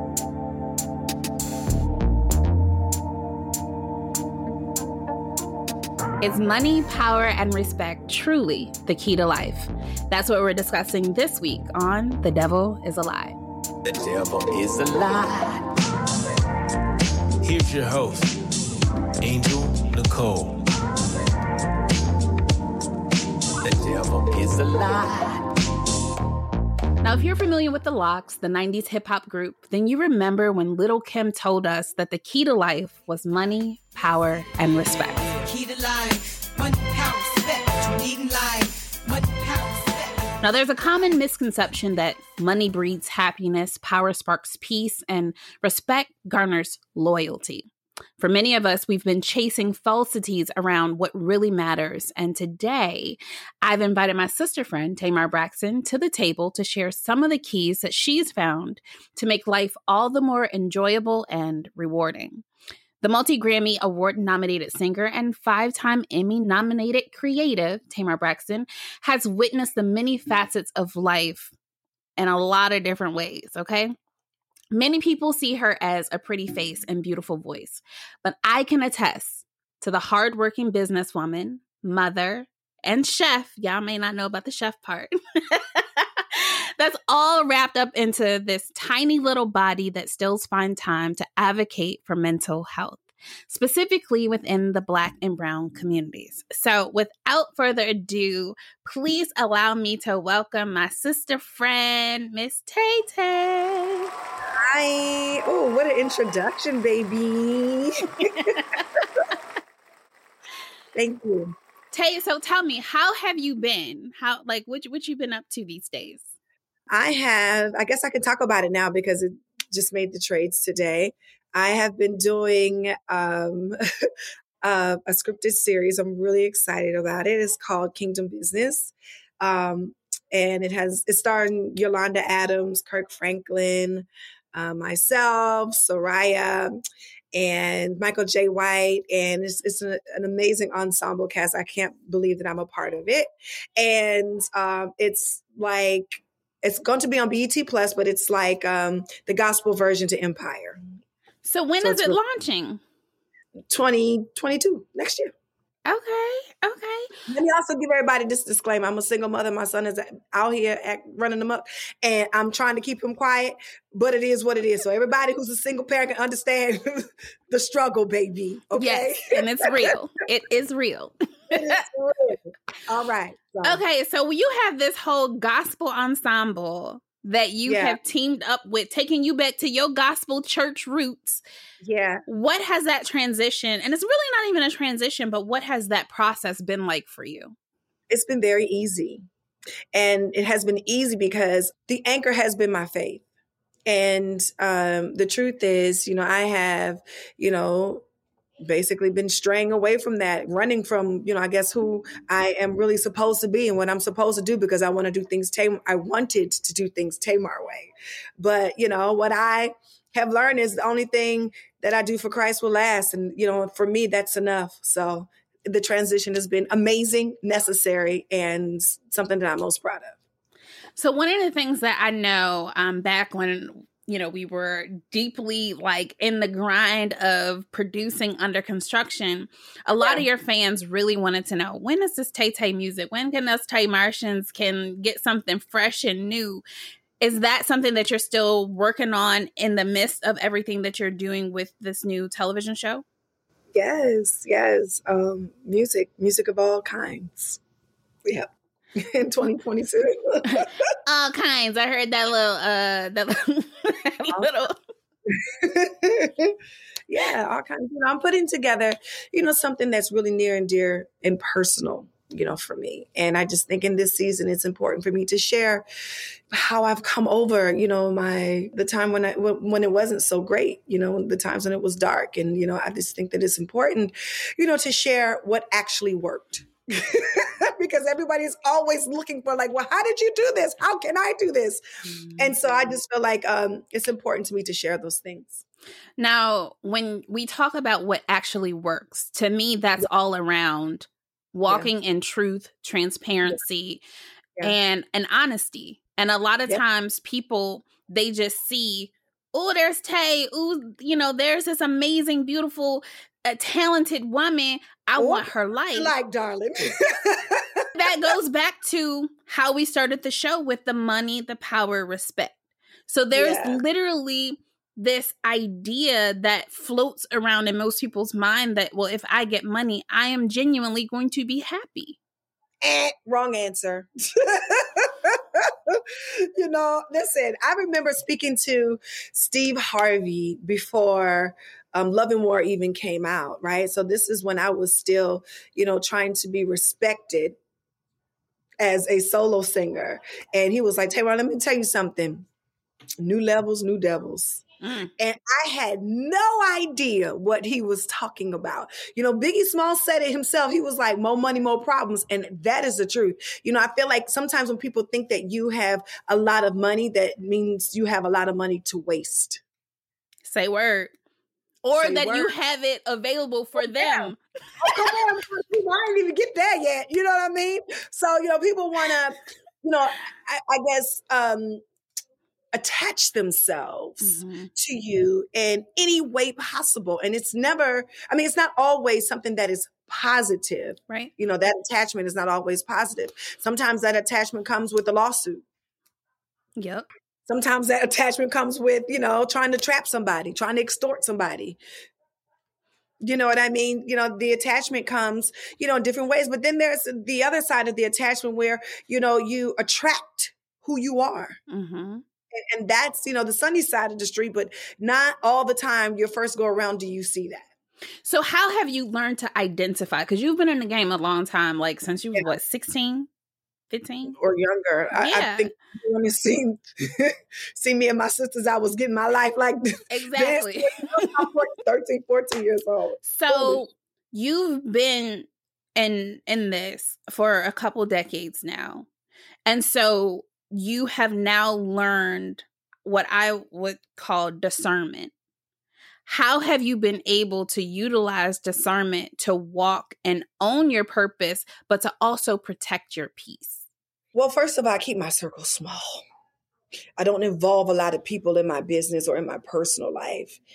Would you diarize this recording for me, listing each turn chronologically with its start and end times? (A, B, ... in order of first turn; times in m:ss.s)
0:06.2-0:13.4 A
0:13.8-0:15.6 B
0:17.4-0:18.3 C
0:19.2-0:20.6 C
0:23.6-0:25.4 B
0:27.0-0:35.3 A
0:35.6-0:39.9 D
0:40.4-1:02.4 A
1:03.0-1:11.5 A
1:12.2-1:13.9 A
1:14.7-1:44.1 A
1:44.6-1:48.6 D
1:48.4-1:48.8 A
1:51.0-1:51.6 D
1:51.9-1:56.3 A
1:56.9-2:03.8 D
2:04.6-2:16.8 D
2:17.4-2:30.8 D
2:31.4-2:32.8 A
2:31.8-2:32.2 D
2:33.7-2:35.3 D
2:35.8-2:37.1 A
2:37.3-2:49.9 D
2:48.8-2:51.8 A
2:51.5-2:53.8 D
2:53.6-3:01.4 A
2:57.6-2:58.0 D
3:01.8-3:02.2 D
3:02.3-3:07.6 A
3:08.1-3:09.2 D
3:09.9-3:13.2 D
3:13.9-3:18.0 D
3:18.6-3:40.2 D
3:40.9-3:56.6 A
3:57.2-4:03.0 A
4:03.7-4:07.6 D
4:08.2-4:10.7 D
4:10.4-4:14.8 A
4:15.3-4:16.6 D
4:17.1-4:25.8 D
4:26.5-4:41.8 D
4:42.2-4:42.5 A
4:42.4-4:45.6 D
4:46.2-4:54.0 A
4:54.6-5:06.1 A
5:05.2-5:08.3 D
5:07.9-5:12.6 A
5:13.1-5:22.2 A
5:13.3-5:13.8 D
5:22.8-5:37.6 D
5:38.8-5:42.5 D
5:43.2-5:59.6 D
5:44.8-5:45.1 A
6:00.4-6:01.1 A
6:01.8-6:04.4 A
6:02.0-6:02.5 D
6:03.8-6:11.8 D
6:12.7-6:25.6 D
6:14.2-6:14.7 A
6:26.8-6:27.1 A
6:27.5-6:31.8 D
6:33.2-6:41.6 D
6:41.7-6:42.2 A
6:42.5-6:47.7 D
6:48.2-6:53.3 A
6:53.9-6:54.4 A
6:54.4-6:59.8 D
6:55.2-6:55.7 A
7:00.1-7:01.4 A
7:00.3-7:03.8 D
7:03.2-7:09.1 A
7:09.7-7:15.3 A
7:16.2-7:23.8 A
7:24.3-7:26.2 D
7:27.2-7:30.6 D